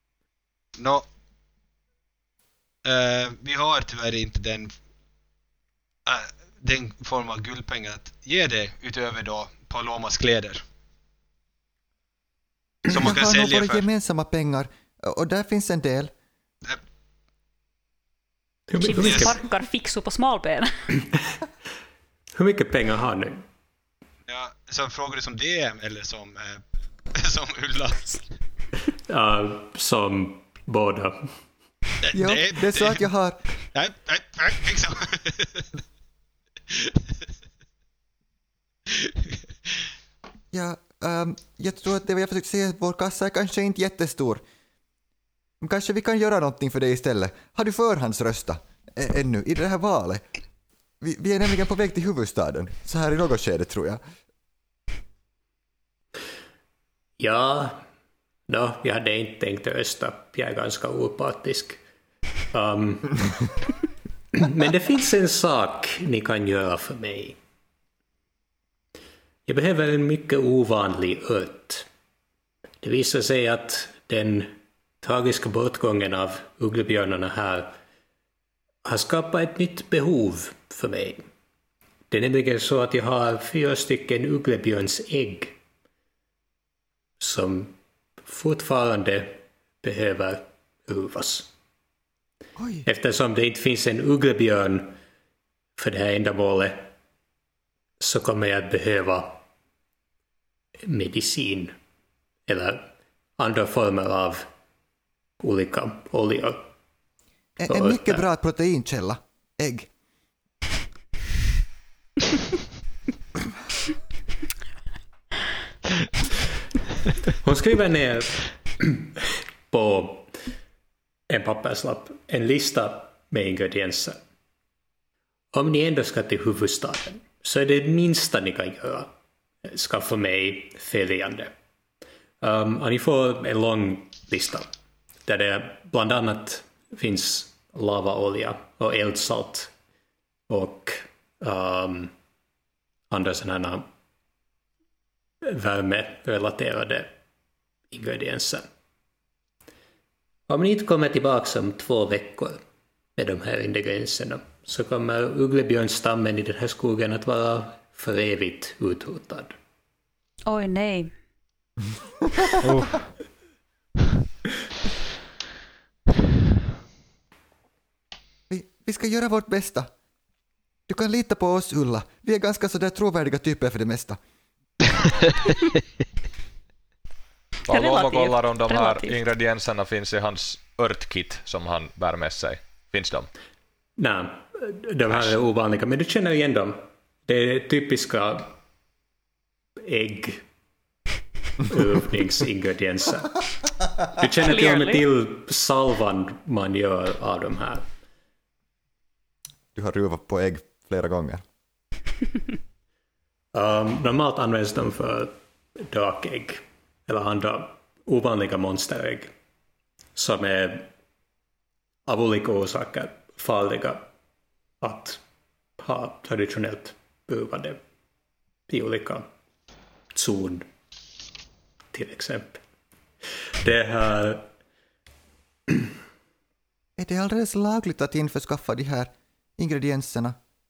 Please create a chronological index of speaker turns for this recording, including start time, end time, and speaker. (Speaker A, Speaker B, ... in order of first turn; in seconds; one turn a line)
Speaker A: 0.8-1.1
Speaker A: 2.8-4.7
Speaker A: 6.0-10.6
Speaker B: 12.9-16.1
Speaker A: 12.9-13.8
Speaker C: 18.7-19.4
Speaker D: 18.8-20.7
Speaker C: 22.3-23.4
Speaker A: 24.3-26.6
Speaker A: 27.1-28.3
Speaker C: 29.1-31.3
Speaker A: 32.0-33.0
Speaker B: 32.1-33.4
Speaker A: 33.7-35.7
Speaker B: 40.5-44.4
Speaker B: 45.6-50.2
Speaker B: 51.0-54.0
Speaker C: 57.2-57.8
Speaker C: 58.5-61.8
Speaker C: 62.5-63.2
Speaker C: 64.3-67.4
Speaker C: 69.5-71.9
Speaker C: 72.8-77.8
Speaker C: 78.8-81.2
Speaker C: 82.1-85.6
Speaker C: 87.2-91.5
Speaker B: 92.6-92.8
Speaker C: 92.8-95.0
Speaker C: 95.8-96.9
Speaker C: 98.0-99.4
Speaker C: 100.9-101.7
Speaker C: 102.5-104.5
Speaker C: 105.4-106.7
Speaker B: 107.6-109.9
Speaker C: 107.7-108.2
Speaker C: 117.3-120.3
Speaker C: 121.3-124.2
Speaker C: 125.5-129.1
Speaker C: 129.6-131.5
Speaker C: 132.4-134.7
Speaker C: 135.2-139.7
Speaker C: 140.5-142.1
Speaker C: 143.1-143.9
Speaker C: 145.4-147.1
Speaker C: 147.9-148.7
Speaker C: 150.5-152.6
Speaker C: 153.2-159.6
Speaker D: 160.4-161.1
Speaker A: 162.6-163.1
Speaker B: 168.5-169.9
Speaker B: 170.9-174.2
Speaker E: 177.7-183.3
Speaker D: 177.7-179.2
Speaker C: 184.0-188.6
Speaker C: 189.8-190.4
Speaker C: 191.7-193.4
Speaker C: 194.1-197.9
Speaker D: 194.4-195.0
Speaker B: 199.7-201.4
Speaker C: 203.5-209.3
Speaker C: 210.1-210.9
Speaker C: 212.1-214.1
Speaker C: 214.8-215.2
Speaker C: 215.8-217.8
Speaker C: 218.7-219.3
Speaker C: 220.1-220.7
Speaker C: 221.9-222.6
Speaker C: 223.6-224.5
Speaker B: 227.0-230.4